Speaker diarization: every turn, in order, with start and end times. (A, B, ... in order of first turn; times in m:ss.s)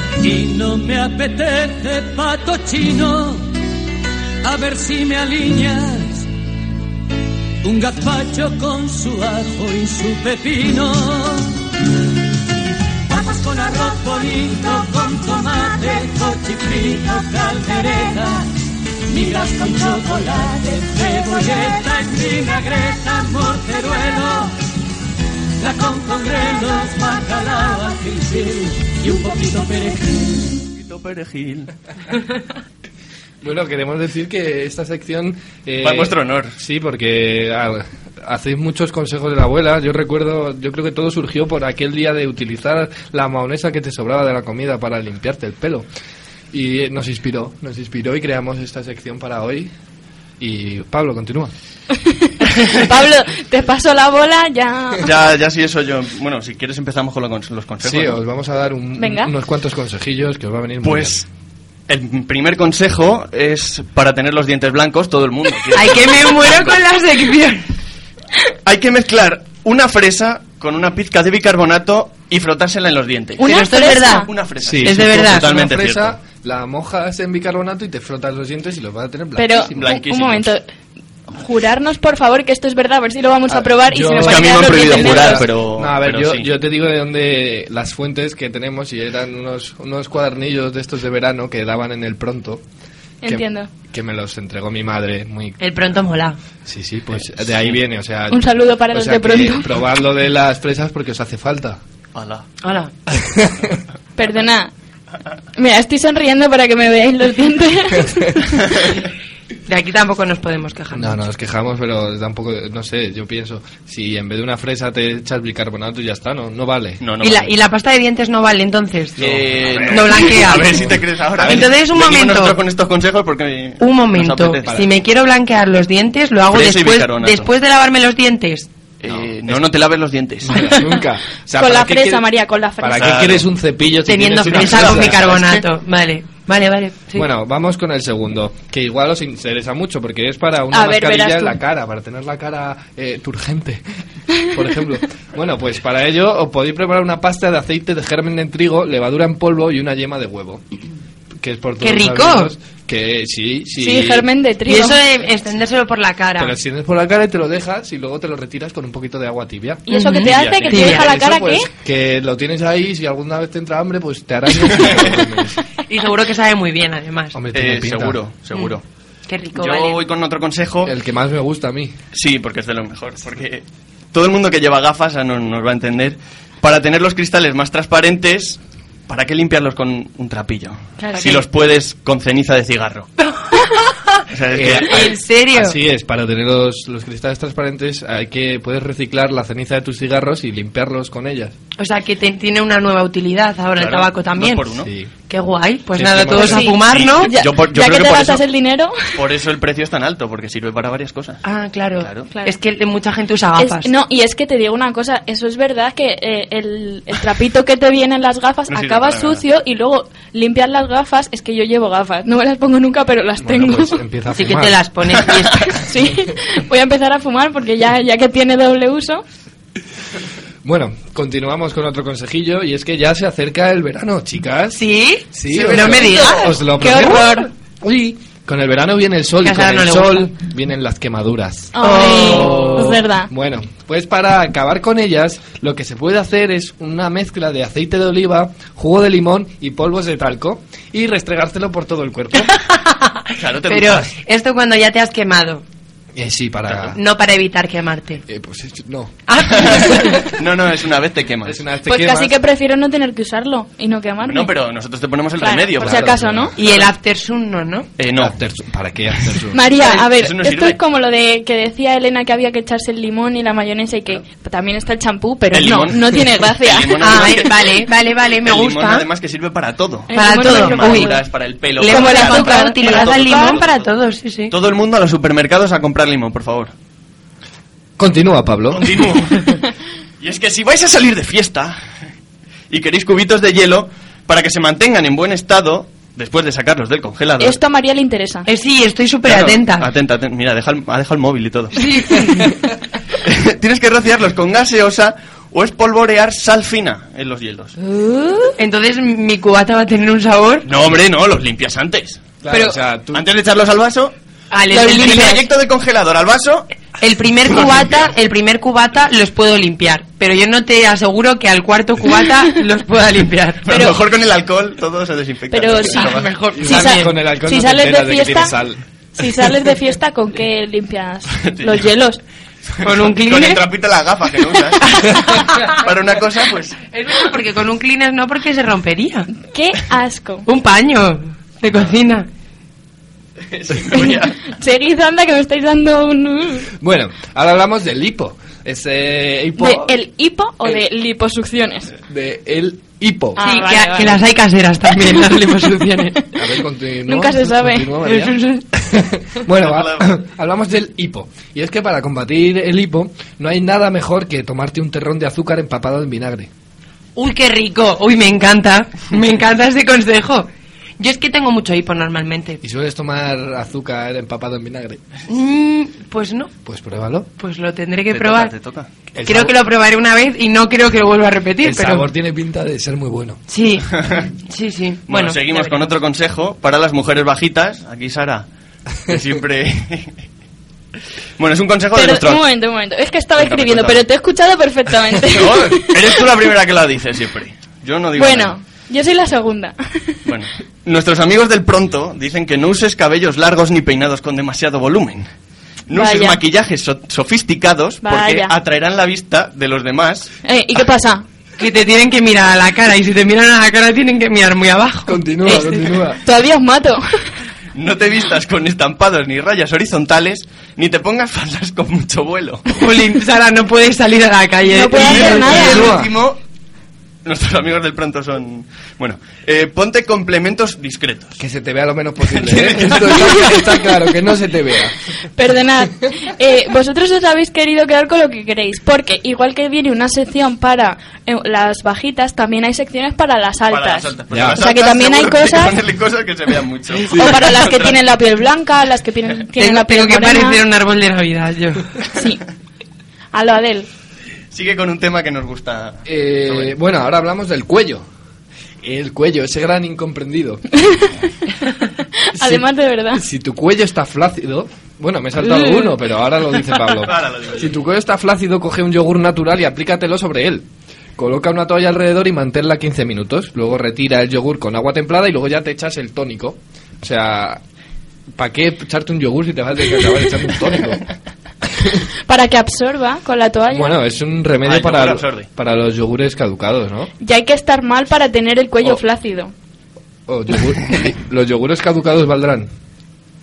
0:00.2-0:03.5 A
0:04.4-0:06.3 A
0:07.6-0:11.6 A
0:13.1-0:18.4 A
0:19.1-0:24.5 A
0:25.6-0:30.5 A
0:30.6-0:31.7 B
0:33.4-0:45.9 C
0:35.8-0:36.6 B
0:46.5-0:49.7 C
0:50.4-0:51.5 C
0:52.0-0:55.1 D
0:55.0-0:58.2 B
0:57.8-1:01.2 C
0:59.0-0:59.3 D
1:00.8-1:01.2 B
1:01.9-1:06.8 B
1:05.7-1:07.6 E
1:08.6-1:13.4 B
1:13.4-1:14.3 E
1:13.4-1:14.3 D
1:14.3-1:16.2 B
1:14.6-1:19.9 C
1:14.8-1:15.5 E
1:19.4-1:20.6 D
1:19.7-1:20.5 B
1:21.3-1:25.4 D
1:23.5-1:32.6 C
1:24.2-1:26.5 B
1:33.2-1:33.7 D
1:33.2-1:35.6 C
1:35.6-1:36.4 E
1:36.6-1:41.8 C
1:38.3-1:39.7 D
1:42.1-1:42.4 B
1:42.6-1:42.9 E
1:43.1-1:43.8 C
1:44.2-1:44.7 D
1:45.6-1:48.5 D
1:49.7-1:51.2 E
1:50.9-1:57.0 C
1:57.0-1:57.5 B
1:57.2-1:59.2 E
1:59.2-2:01.7 C
1:59.2-2:04.7 B
1:59.8-2:00.9 E
2:01.4-2:02.6 E
2:03.8-2:08.7 E
2:06.5-2:07.5 B
2:09.0-2:10.6 B
2:09.0-2:09.6 C
2:10.4-2:12.2 C
2:11.6-2:13.2 D
2:12.8-2:15.4 C
2:12.9-2:13.4 B
2:14.0-2:17.2 E
2:14.5-2:15.4 B
2:17.1-2:23.8 C
2:20.7-2:21.5 D
2:24.3-2:30.6 C
2:31.4-2:34.3 C
2:31.8-2:32.5 E
2:33.8-2:35.0 D
2:34.6-2:36.5 E
2:36.4-2:45.6 C
2:39.9-2:41.7 D
2:39.9-2:41.0 E
2:40.2-2:41.1 B
2:45.9-2:47.4 E
2:47.3-2:48.2 C
2:47.5-2:48.8 B
2:49.3-2:50.0 E
2:49.6-2:50.9 B
2:50.8-2:52.0 C
2:52.1-3:03.1 B
3:01.0-3:01.4 E
3:03.2-3:04.2 E
3:04.3-3:05.1 B
3:04.5-3:11.5 C
3:04.9-3:05.8 E
3:11.8-3:14.7 E
3:13.8-3:14.9 B
3:14.7-3:15.1 C
3:15.3-3:17.3 E
3:15.9-3:16.7 C
3:16.4-3:19.2 D
3:16.9-3:18.4 B
3:19.1-3:21.4 B
3:21.4-3:23.9 E
3:22.0-3:22.3 B
3:23.6-3:34.0 D
3:28.7-3:29.4 B
3:33.4-3:34.8 C
3:34.3-3:35.7 E
3:35.8-3:39.2 D
3:40.6-3:52.5 C
3:44.7-3:47.2 E
3:45.7-3:46.0 B
3:46.8-3:47.5 D
3:49.4-3:50.3 E
3:51.7-3:53.3 D
3:51.8-3:53.0 E
3:53.3-4:02.5 C
4:02.4-4:05.6 E
4:03.4-4:04.1 B
4:06.2-4:07.0 C
4:06.9-4:08.2 E
4:08.3-4:09.2 C
4:09.3-4:10.2 E
4:09.5-4:11.6 B
4:11.4-4:12.4 C
4:11.8-4:14.5 D
4:14.2-4:16.9 B
4:15.4-4:16.5 D
4:15.8-4:16.5 C
4:16.6-4:17.9 E
4:18.0-4:18.4 B
4:18.1-4:19.6 C
4:19.5-4:27.3 D
4:19.8-4:20.8 B
4:25.5-4:27.9 B
4:27.0-4:29.0 E
4:28.4-4:33.8 B
4:30.1-4:31.2 D
4:30.1-4:31.2 E
4:31.8-4:33.6 D
4:31.8-4:34.5 E
4:34.5-4:36.7 B
4:38.0-4:38.9 C
4:38.7-4:39.6 B
4:40.2-4:41.8 B
4:42.7-4:47.6 B
4:47.4-4:48.5 D
4:48.4-4:49.9 E
4:49.2-4:52.2 B
4:51.8-4:52.4 E
4:53.2-4:57.8 B
4:57.8-4:58.5 D
4:58.6-5:00.7 E
5:00.6-5:02.3 B
5:02.4-5:03.2 C
5:02.5-5:02.8 D
5:03.1-5:04.1 B
5:04.5-5:05.4 E
5:04.7-5:05.4 D
5:04.7-5:06.7 B
5:07.0-5:13.6 E
5:07.5-5:08.1 B
5:13.6-5:16.3 B
5:13.7-5:14.0 D
5:15.5-5:16.1 D
5:15.8-5:17.1 E
5:16.6-5:18.8 C
5:16.6-5:18.5 D
5:19.2-5:22.2 D
5:21.4-5:21.9 B
5:22.8-5:26.8 B
5:22.8-5:23.6 E
5:26.9-5:29.3 E
5:29.4-5:30.4 D
5:30.4-5:32.3 E
5:33.5-5:34.4 B
5:33.9-5:36.7 D
5:36.8-5:39.9 C
5:39.6-5:41.9 D
5:42.1-5:43.4 C
5:43.4-5:44.2 D
5:43.4-5:46.2 E
5:46.3-5:56.5 C
5:47.1-5:47.9 D
5:48.0-5:48.6 E
5:49.5-5:50.1 B
5:57.2-6:02.6 E
6:02.6-6:05.0 C
6:05.3-6:06.5 E
6:06.6-6:07.3 C
6:07.4-6:08.5 E
6:08.1-6:08.9 B
6:09.1-6:09.5 C
6:09.2-6:12.1 E
6:11.6-6:13.4 C
6:13.5-6:13.9 E
6:14.4-6:15.8 E
6:15.1-6:18.4 B
6:19.0-6:20.1 B
6:21.4-6:22.4 B
6:21.9-6:25.9 D
6:23.4-6:24.0 B
6:25.3-6:28.6 B
6:28.2-6:30.1 D
6:30.2-6:35.3 B
6:35.9-6:40.3 B
6:35.9-6:36.4 D
6:38.0-6:38.5 D
6:40.4-6:41.2 D
6:41.6-6:45.2 E
6:45.0-6:46.2 C
6:45.5-6:47.0 D
6:47.7-6:52.6 B
6:52.7-6:55.8 E
6:54.7-6:56.0 D
6:54.9-6:56.4 B
6:55.5-6:56.1 C
6:57.2-7:01.4 B
7:01.4-7:04.9 C
7:02.3-7:03.5 B
7:05.4-7:15.8 D
7:13.7-7:18.0 B
7:14.3-7:14.6 C
7:17.1-7:20.6 D
7:19.6-7:21.9 E
7:22.1-7:22.4 D
7:23.3-7:23.9 D
7:24.5-7:26.7 B
7:26.0-7:28.0 C
7:28.8-7:30.6 C
7:32.3-7:33.2 D
7:32.4-7:40.6 C
7:37.0-7:37.7 B
7:41.2-7:47.6 C
7:48.3-7:51.0 C
7:52.3-7:54.0 D
7:53.7-7:57.1 C
7:54.6-7:55.5 B
7:57.2-7:59.5 D
8:00.3-8:02.7 C